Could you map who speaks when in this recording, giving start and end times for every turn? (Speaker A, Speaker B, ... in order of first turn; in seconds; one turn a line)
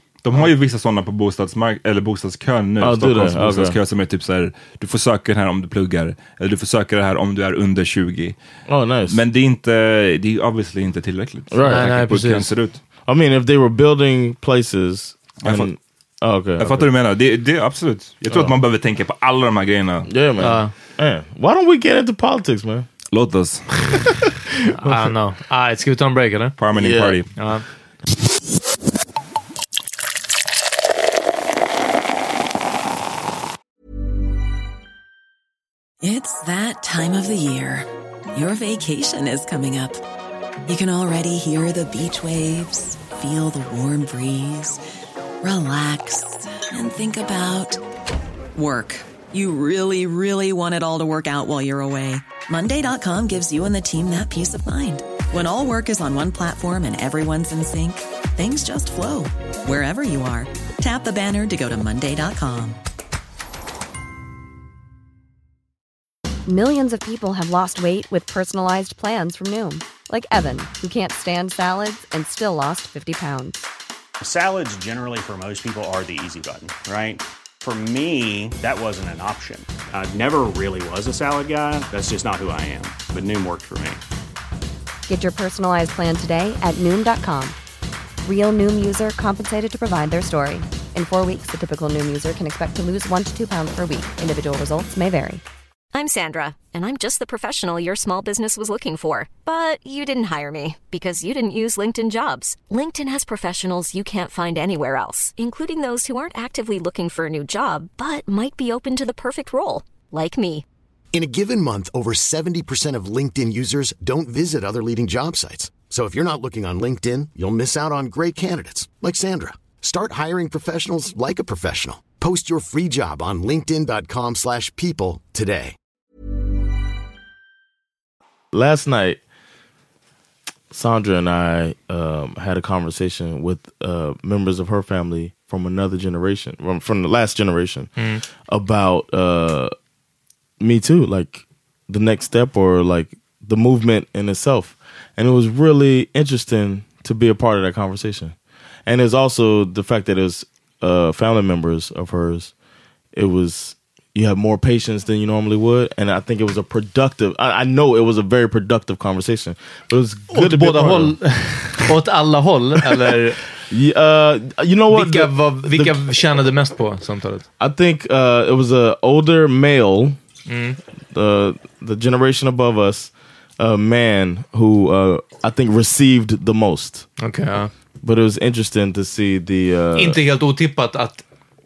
Speaker A: 0.2-8.4
Speaker B: 2.8-3.8
Speaker B: 8.7-9.2
Speaker A: 9.1-12.8
Speaker B: 11.5-11.8
Speaker C: 11.6-12.5
Speaker B: 13.0-16.9
Speaker A: 15.4-15.7
Speaker A: 16.6-20.1
Speaker B: 20.1-22.9
Speaker C: 20.4-20.7
Speaker A: 23.1-24.0
Speaker B: 23.9-25.0
Speaker C: 24.8-26.6
Speaker A: 26.6-27.3
Speaker B: 26.8-27.2
Speaker C: 27.4-27.6
Speaker D: 36.0-40.0
Speaker D: 40.7-44.8
Speaker D: 45.4-47.8
Speaker D: 48.5-62.8
Speaker E: 66.5-73.6
Speaker F: 74.2-84.0
Speaker E: 85.1-87.5
Speaker E: 88.2-95.4
Speaker G: 95.9-110.6
Speaker H: 111.1-125.8
Speaker B: 128.5-129.2
Speaker B: 130.7-139.7
Speaker B: 140.6-152.5
Speaker B: 153.1-161.2
Speaker C: 160.3-163.4
Speaker B: 163.6-166.0
Speaker C: 164.9-167.4
Speaker B: 167.6-170.2
Speaker C: 170.5-170.8
Speaker B: 171.1-177.1
Speaker C: 177.2-177.7
Speaker B: 178.0-180.2
Speaker C: 179.9-181.2